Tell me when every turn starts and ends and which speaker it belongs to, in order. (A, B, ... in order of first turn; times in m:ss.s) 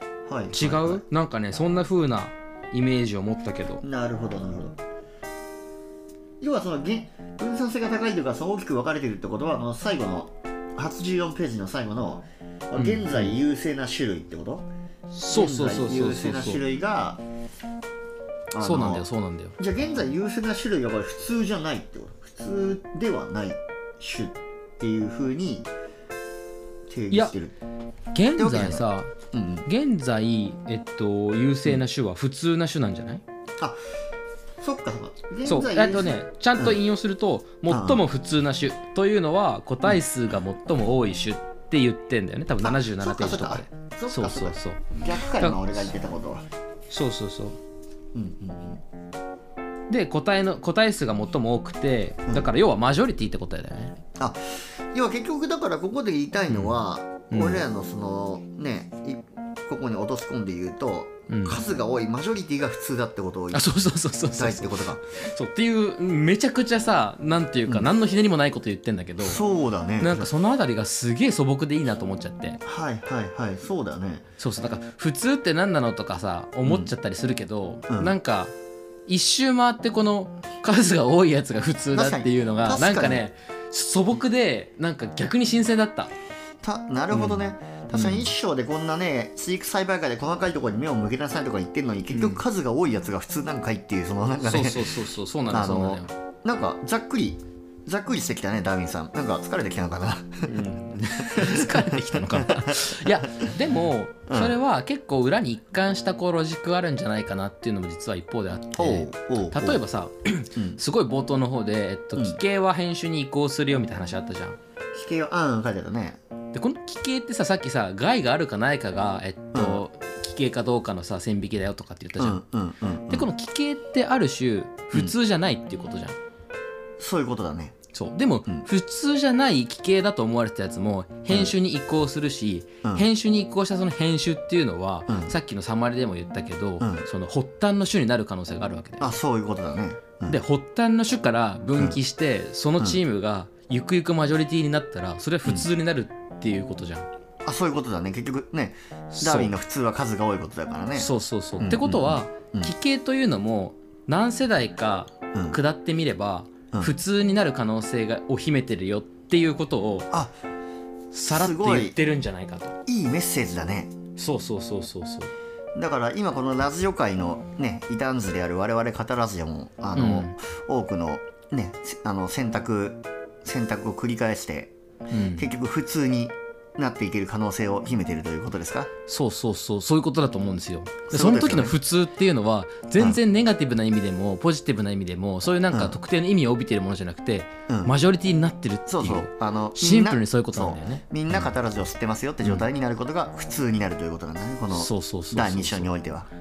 0:00.3-0:01.0 A
0:00.5-0:03.8 B
0:03.8-0:04.8 A
0:06.4-0:14.7 A
0:12.8-0:13.4 B
0:15.1-0:16.6 B
0:15.3-0:17.2 A
0:18.5-0:19.1 A
0:18.6-0:19.6 B
0:19.6-0:25.7 A
0:26.9-0:27.6 A
0:28.1-0:29.1 B
0:28.4-0:29.7 A
0:29.7-0:33.2 B
0:34.6-0:36.8 A
0:35.4-0:45.9 B
0:37.7-0:38.0 A
0:42.6-0:46.5 A
0:46.9-0:47.6 B
0:48.1-0:48.8 A
0:49.9-0:54.0 B
0:54.2-1:03.7 A
0:56.5-0:56.8 B
0:57.3-0:57.6 B
1:01.3-1:01.6 B
1:03.5-1:09.4 B
1:04.3-1:05.0 A
1:09.2-1:10.3 A
1:10.0-1:12.6 B
1:12.6-1:14.3 A
1:14.4-1:18.5 B
1:16.6-1:16.9 A
1:17.9-1:18.2 A
1:19.1-1:26.1 B
1:21.9-1:23.2 A
1:26.6-1:35.0 A
1:27.1-1:28.3 B
1:32.1-1:32.4 B
1:34.4-1:36.1 B
1:35.5-1:40.6 A
1:40.5-1:54.6 B
1:41.2-1:43.5 A
1:44.3-1:44.6 A
1:48.8-1:49.8 A
1:54.9-1:56.2 A
1:56.5-2:02.4 B
1:59.5-1:59.8 A
2:02.2-2:03.3 A
2:03.1-2:06.2 B
2:07.0-2:07.8 A
2:07.9-2:19.2 B
2:11.3-2:11.5 A
2:15.1-2:15.4 A
2:16.8-2:17.1 A
2:19.0-2:20.4 A
2:20.3-2:27.1 B
2:27.4-2:32.7 A
2:29.1-2:29.5 B
2:31.0-2:40.1 B
2:35.3-2:35.6 A
2:41.1-2:42.8 B
2:41.3-2:42.0 A
2:42.9-2:43.9 A
2:44.2-2:45.3 B
2:45.8-2:54.7 A
2:50.0-2:50.3 B
2:55.1-2:55.5 B
2:55.4-2:58.9 A
2:59.1-3:11.5 B
3:01.1-3:01.8 A
3:07.7-3:07.9 A
3:08.9-3:16.3 A
3:14.7-3:15.9 B